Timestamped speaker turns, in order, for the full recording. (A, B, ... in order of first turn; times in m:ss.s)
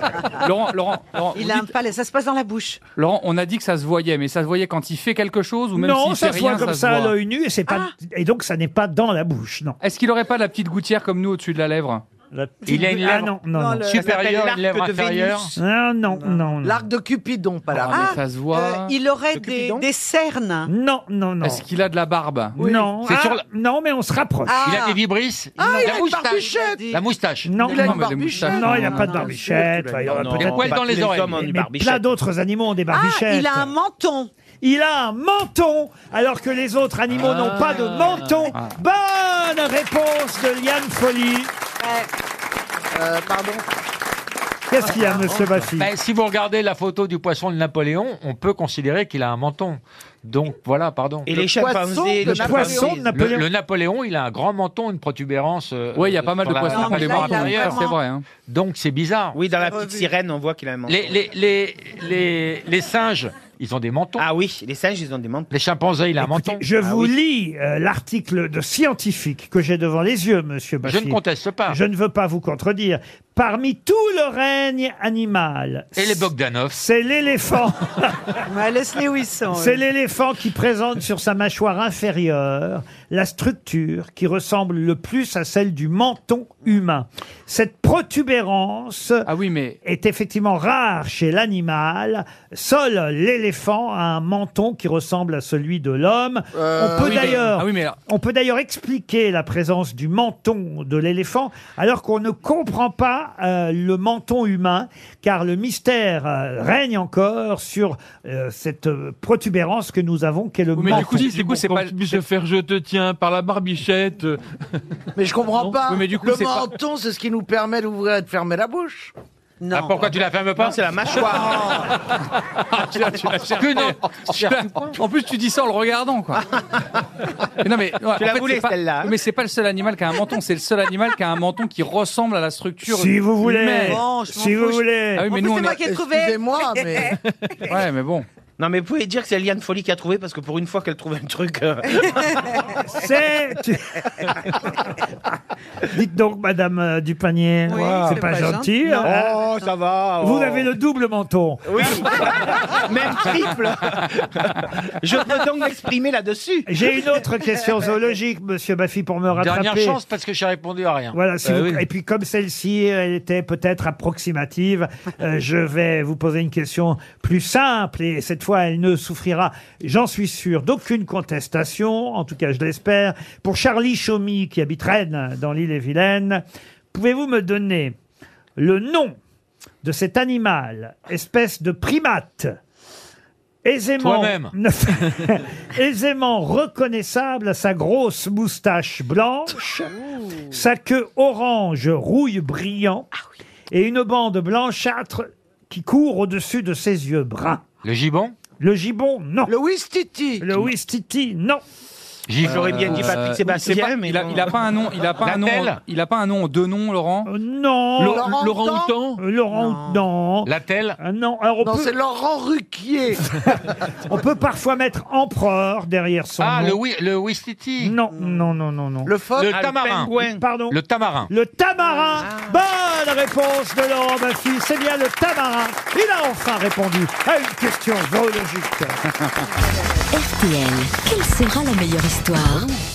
0:00.3-0:01.7 A
0:01.3-0:02.8 B
0:03.0-0:07.1 A
0:05.7-0:09.8 C
0:07.7-0:07.9 B
0:09.8-0:12.0 A
0:12.3-0:14.0 C
0:12.6-0:15.6 D
0:13.6-0:13.8 B
0:13.9-0:15.5 E
0:15.6-0:16.8 C
0:16.6-0:18.2 F
0:17.7-0:18.9 A
0:17.8-0:20.7 B
0:19.3-0:19.8 E
0:20.7-0:21.6 C
0:21.4-0:22.6 A
0:22.6-0:24.8 C
0:22.6-0:22.9 F
0:23.0-0:23.4 D
0:24.5-0:25.0 B
0:24.6-0:27.5 D
0:25.6-0:26.9 F
0:25.6-0:27.0 B
0:27.4-0:33.7 C
0:27.6-0:29.9 F
0:27.6-0:29.6 B
0:27.6-0:29.2 A
0:30.0-0:32.1 E
0:30.3-0:31.4 D
0:32.9-0:34.3 B
0:34.6-0:41.5 C
0:37.1-0:38.4 G
0:41.8-0:42.1 B
0:42.9-0:43.6 F
0:44.7-0:45.9 C
0:45.8-0:51.4 D
0:51.2-0:52.9 E
0:51.4-0:53.1 F
0:52.2-0:53.5 C
0:53.1-0:57.8 D
0:55.9-0:58.3 A
0:56.6-0:57.9 B
0:58.4-0:59.4 D
0:59.3-1:01.1 E
0:59.7-1:00.0 B
1:00.9-1:04.2 D
1:04.2-1:05.5 E
1:05.5-1:06.6 D
1:06.2-1:18.3 C
1:06.8-1:07.1 E
1:10.8-1:11.8 D
1:16.0-1:16.8 D
1:18.4-1:19.8 B
1:19.5-1:29.3 C
1:29.2-1:29.8 A
1:29.8-1:51.3 C
1:36.5-1:37.4 F
1:37.0-1:38.0 A
1:50.7-1:52.2 A
1:50.8-1:54.4 G
1:55.2-1:59.1 F
1:55.7-1:56.7 A
1:59.6-2:00.1 B
1:59.7-2:01.5 D
2:00.6-2:01.8 E
2:02.7-2:06.4 A
2:03.5-2:04.9 D
2:07.4-2:14.0 A
2:08.1-2:09.1 E
2:12.8-2:15.3 C
2:13.8-2:17.2 B
2:15.1-2:15.8 A
2:15.8-2:17.2 F
2:17.6-2:18.2 A
2:18.6-2:22.3 E
2:22.8-2:24.6 C
2:25.8-2:29.4 C
2:27.7-2:29.6 B
2:27.8-2:28.2 E
2:29.0-2:30.7 E
2:30.2-2:32.2 C
2:31.6-2:36.7 E
2:36.6-2:40.0 C
2:39.3-2:41.2 D
2:41.1-2:58.0 C
2:58.6-2:59.2 C
2:59.8-3:02.6 C
3:03.6-3:09.9 C
3:04.0-3:04.5 D
3:10.5-3:13.1 C
3:13.7-3:17.6 C
3:17.8-3:18.3 D
3:18.6-3:19.5 C
3:19.4-3:20.5 F
3:20.4-3:21.6 C
3:22.3-3:23.2 D
3:22.4-3:27.3 A
3:22.4-3:24.6 E
3:25.2-3:25.8 D
3:27.2-3:28.4 C
3:28.0-3:29.2 G
3:28.0-3:29.0 F
3:29.2-3:31.9 C
3:29.5-3:30.0 B
3:30.4-3:31.0 D
3:31.6-3:33.2 F
3:33.4-3:36.8 C
3:36.4-3:38.0 D
3:37.8-3:39.1 C
3:38.1-3:38.5 B
3:39.0-3:39.5 F
3:39.4-3:40.1 D
3:39.5-3:40.4 E
3:40.1-3:40.8 C
3:40.7-3:41.3 D
3:41.3-3:49.0 C
3:50.1-3:52.7 H